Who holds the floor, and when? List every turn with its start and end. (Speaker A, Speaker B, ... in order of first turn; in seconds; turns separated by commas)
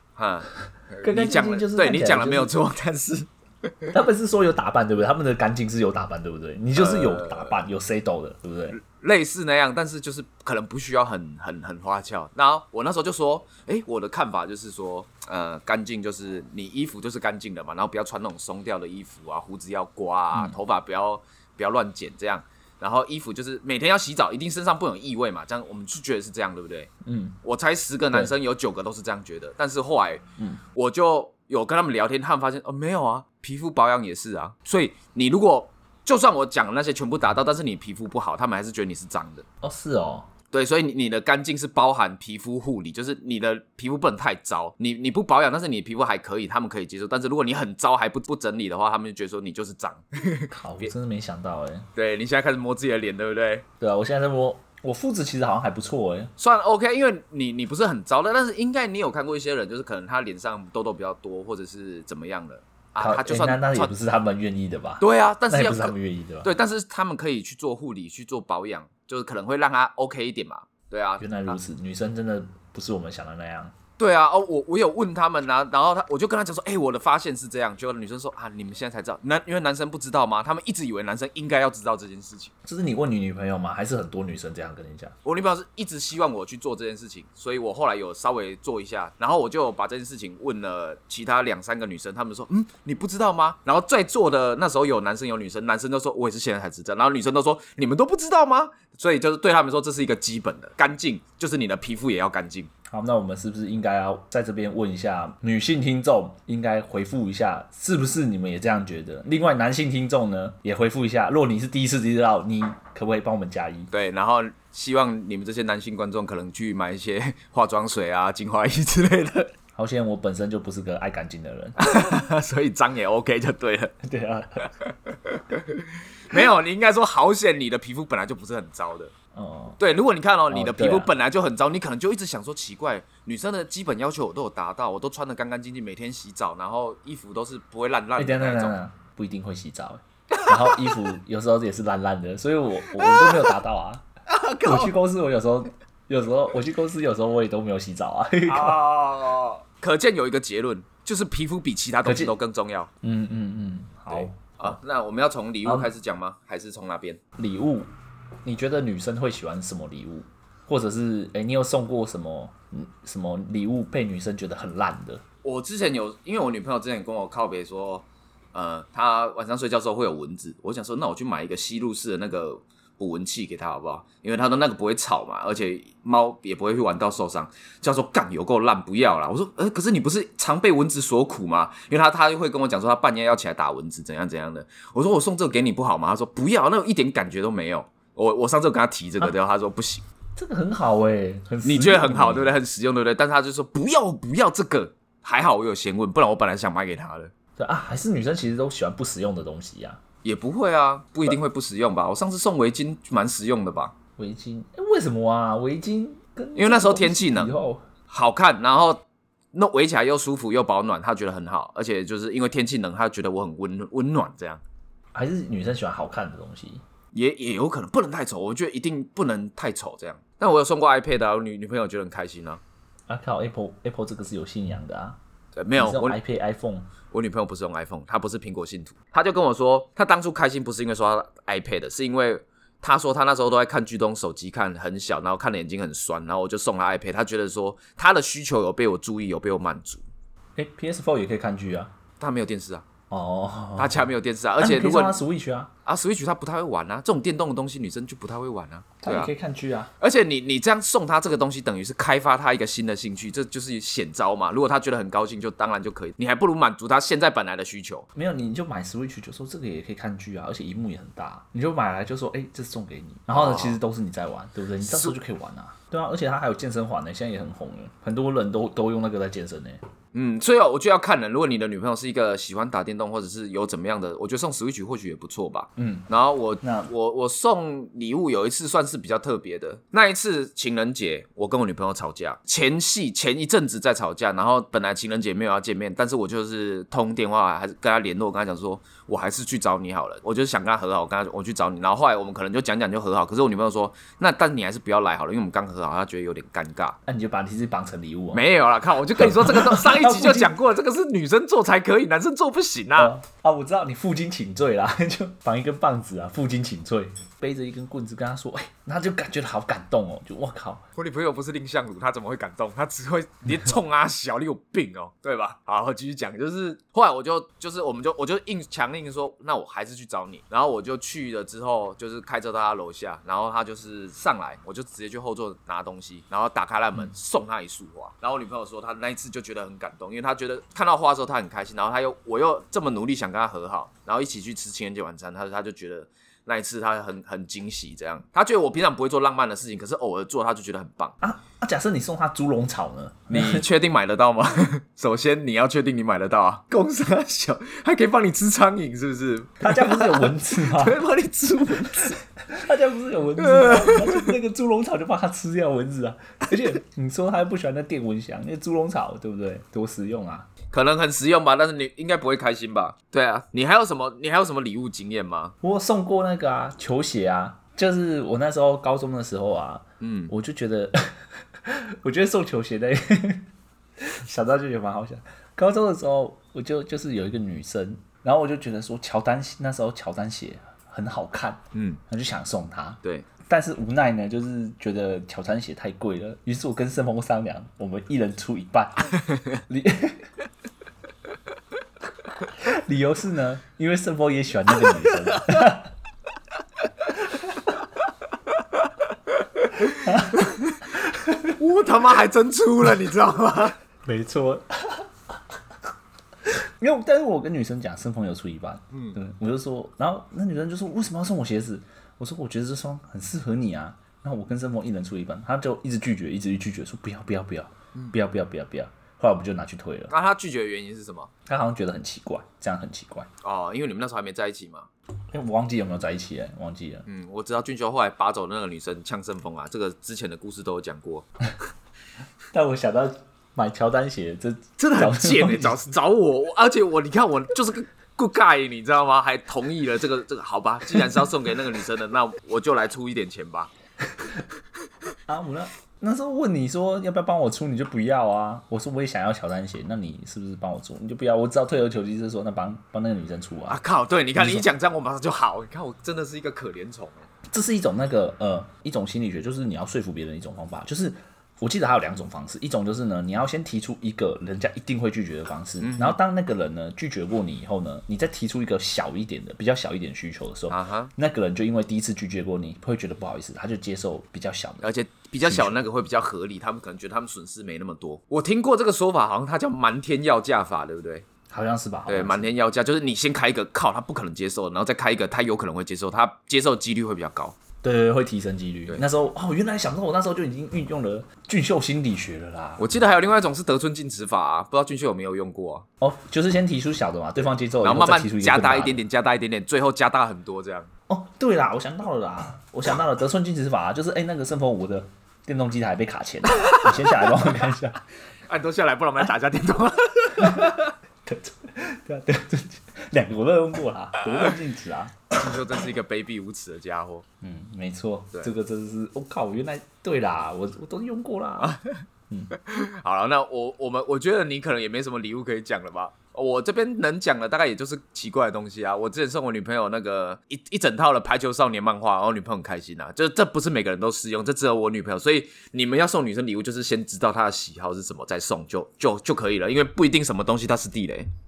Speaker A: 0.2-3.9, Speaker B: 1.0-2.6, Speaker B: 3.9-8.8, Speaker A: 6.8-7.6, Speaker A: 8.7-26.9, Speaker B: 27.0-27.4, Speaker A: 27.4-39.5, Speaker B: 39.6-40.3, Speaker A: 40.5-50.9, Speaker B: 50.5-51.9, Speaker A: 52.0-53.6, Speaker B: 53.8-56.3, Speaker A: 56.4-63.9, Speaker B: 63.0-66.5, Speaker A: 65.0-71.6, Speaker B: 71.2-73.7, Speaker A: 74.0-82.5, Speaker B: 82.7-85.2, Speaker A: 85.2-102.7, Speaker B: 102.9-113.9, Speaker A: 113.9-119.5, Speaker B: 119.8-121.8, Speaker A: 121.8-124.0, Speaker B: 124.0-124.7, Speaker A: 124.7-129.1, Speaker B: 129.3-129.8, Speaker A: 129.8-138.8, Speaker B: 130.5-131.1, Speaker B: 138.2-144.1, Speaker A: 140.4-141.1, Speaker A: 142.8-143.6, Speaker A: 144.3-144.9, Speaker B: 144.6-148.8, Speaker A: 148.5-152.9, Speaker B: 152.0-152.4, Speaker B: 153.0-154.8, Speaker A: 154.1-157.2, Speaker B: 155.6-155.9, Speaker B: 157.4-157.9, Speaker B: 158.4-165.2, Speaker A: 165.4-190.1, Speaker B: 190.4-192.6, Speaker A: 191.6-197.3, Speaker B: 197.6-200.0, Speaker A: 200.2-203.9, Speaker B: 204.2-207.8, Speaker A: 206.6-207.6, Speaker A: 208.1-214.6, Speaker B: 215.1-216.8, Speaker A: 217.1-222.6, Speaker B: 223.1-225.2, Speaker A: 225.6-226.2, Speaker B: 225.8-226.9, Speaker A: 227.1-240.0, Speaker B: 240.6-241.9, Speaker A: 242.2-242.9, Speaker B: 243.1-245.7, Speaker A: 243.8-245.2, Speaker A: 245.8-249.3, Speaker B: 249.0-249.9, Speaker A: 250.0-258.1, Speaker B: 258.1-269.8, Speaker A: 263.3-263.8, Speaker A: 264.8-265.2, Speaker A: 270.1-297.0, Speaker B: 275.8-276.1, Speaker B: 276.6-276.9, Speaker B: 297.1-298.4, Speaker A: 298.3-303.1, Speaker B: 299.2-300.6, Speaker B: 303.0-310.8, Speaker A: 311.0-341.2, Speaker B: 341.2-343.7, Speaker A: 343.3-352.2, Speaker B: 349.6-351.0, Speaker B: 352.0-360.5, Speaker A: 353.4-354.3, Speaker A: 360.7-365.6, Speaker B: 365.6-373.5, Speaker A: 370.0-370.3, Speaker B: 374.0-389.2, Speaker A: 381.7-382.0, Speaker A: 389.3-389.6, Speaker B: 389.7-390.3, Speaker B: 392.6-395.9, Speaker A: 399.3-400.8, Speaker B: 400.0-401.6, Speaker A: 401.6-403.8, Speaker B: 404.0-405.1, Speaker B: 406.5-420.1, Speaker A: 420.1-421.3, Speaker B: 421.5-423.3, Speaker A: 423.4-424.9, Speaker B: 425.3-427.1, Speaker A: 427.1-431.3, Speaker B: 432.5-435.9, Speaker A: 434.8-443.7, Speaker B: 445.3-453.8, Speaker A: 453.7-457.3, Speaker B: 454.4-454.7, Speaker B: 457.5-474.9, Speaker A: 465.8-466.2, Speaker A: 470.7-471.1, Speaker A: 474.8-481.3, Speaker B: 475.4-475.7, Speaker B: 481.5-482.5, Speaker A: 482.1-487.6, Speaker B: 487.8-492.9, Speaker A: 492.8-495.9, Speaker B: 496.0-499.0, Speaker A: 497.8-500.9, Speaker B: 501.1-508.0, Speaker A: 508.5-510.8, Speaker B: 510.4-515.2, Speaker A: 515.3-517.2, Speaker B: 517.4-521.8, Speaker A: 521.6-522.0, Speaker A: 522.5-541.3